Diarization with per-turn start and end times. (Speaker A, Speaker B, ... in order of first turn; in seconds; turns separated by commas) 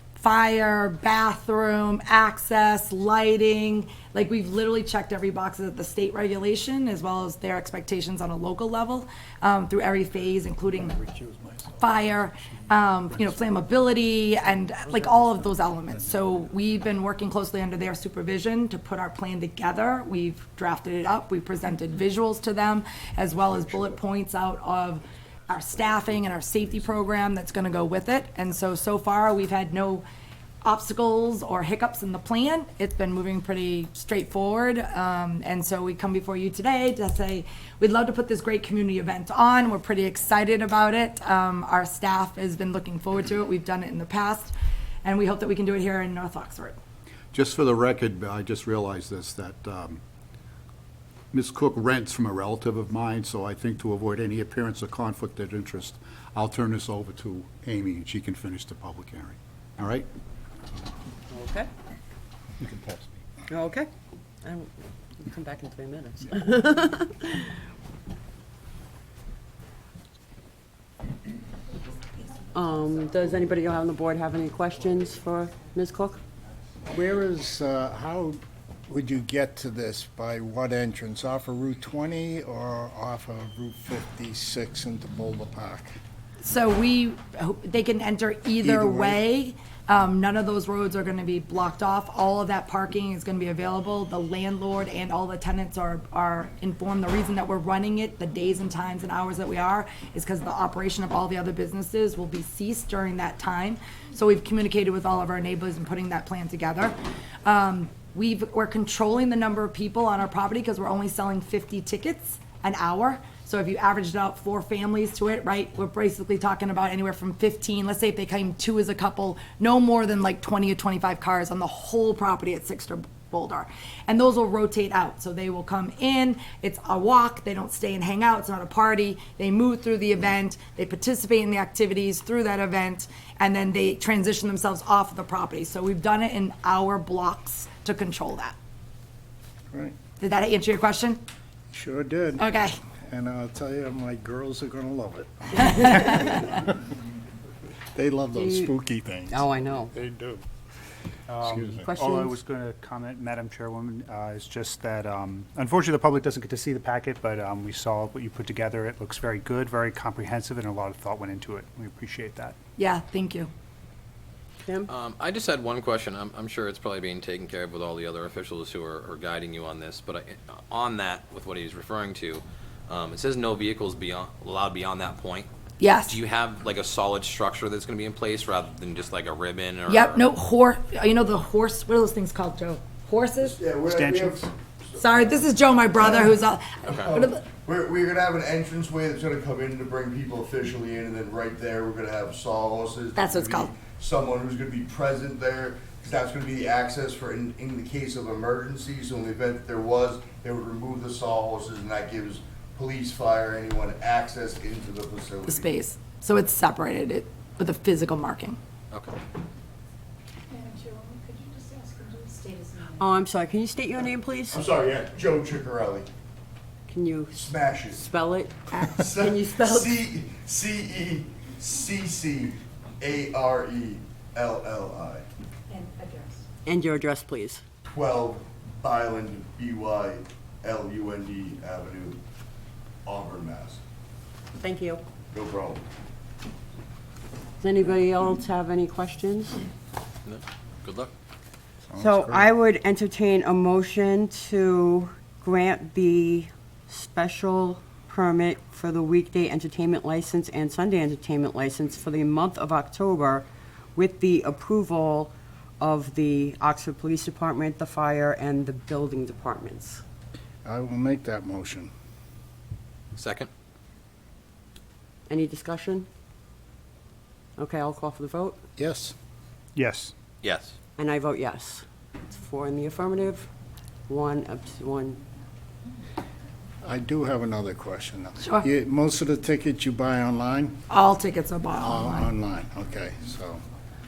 Speaker A: 0.1-11.0, Speaker A: 11.8-30.0, Speaker A: 30.6-46.8, Speaker B: 47.3-50.0, Speaker B: 51.3-60.0, Speaker C: 61.3-61.7, Speaker B: 62.6-63.0, Speaker C: 63.5-63.9, Speaker C: 64.4-67.5, Speaker C: 72.5-76.2, Speaker D: 76.8-86.0, Speaker A: 86.4-138.5, Speaker D: 88.6-89.2, Speaker A: 140.2-141.2, Speaker D: 141.7-146.8, Speaker A: 142.4-142.8, Speaker D: 147.9-150.4, Speaker C: 148.3-148.7, Speaker C: 149.3-149.9, Speaker E: 151.3-162.6, Speaker D: 151.4-151.9, Speaker C: 151.8-152.4, Speaker A: 162.8-163.5, Speaker F: 164.8-175.5, Speaker A: 175.8-176.2, Speaker F: 176.1-180.3, Speaker A: 179.9-183.6, Speaker G: 183.5-185.2, Speaker E: 183.8-184.5, Speaker A: 185.0-187.4, Speaker G: 185.9-205.6, Speaker A: 193.2-193.7, Speaker A: 205.5-208.6, Speaker F: 208.9-209.2, Speaker H: 210.5-213.0, Speaker C: 212.9-214.7, Speaker G: 214.5-216.1, Speaker C: 216.9-220.0, Speaker G: 217.3-218.1, Speaker G: 218.7-225.2, Speaker H: 225.7-226.4, Speaker C: 226.6-227.6, Speaker G: 227.8-232.2, Speaker G: 233.0-233.8, Speaker C: 234.6-235.0, Speaker G: 235.3-235.8, Speaker C: 237.6-239.6, Speaker F: 240.2-241.1, Speaker D: 241.9-242.5, Speaker C: 241.9-260.0, Speaker D: 260.6-261.9, Speaker F: 263.1-263.5, Speaker C: 265.3-266.1, Speaker C: 267.6-268.6, Speaker D: 268.8-269.1, Speaker E: 269.8-270.1, Speaker F: 270.4-270.7, Speaker C: 271.0-273.5, Speaker C: 274.1-275.2, Speaker D: 276.8-280.8, Speaker A: 280.9-282.3, Speaker D: 281.8-283.6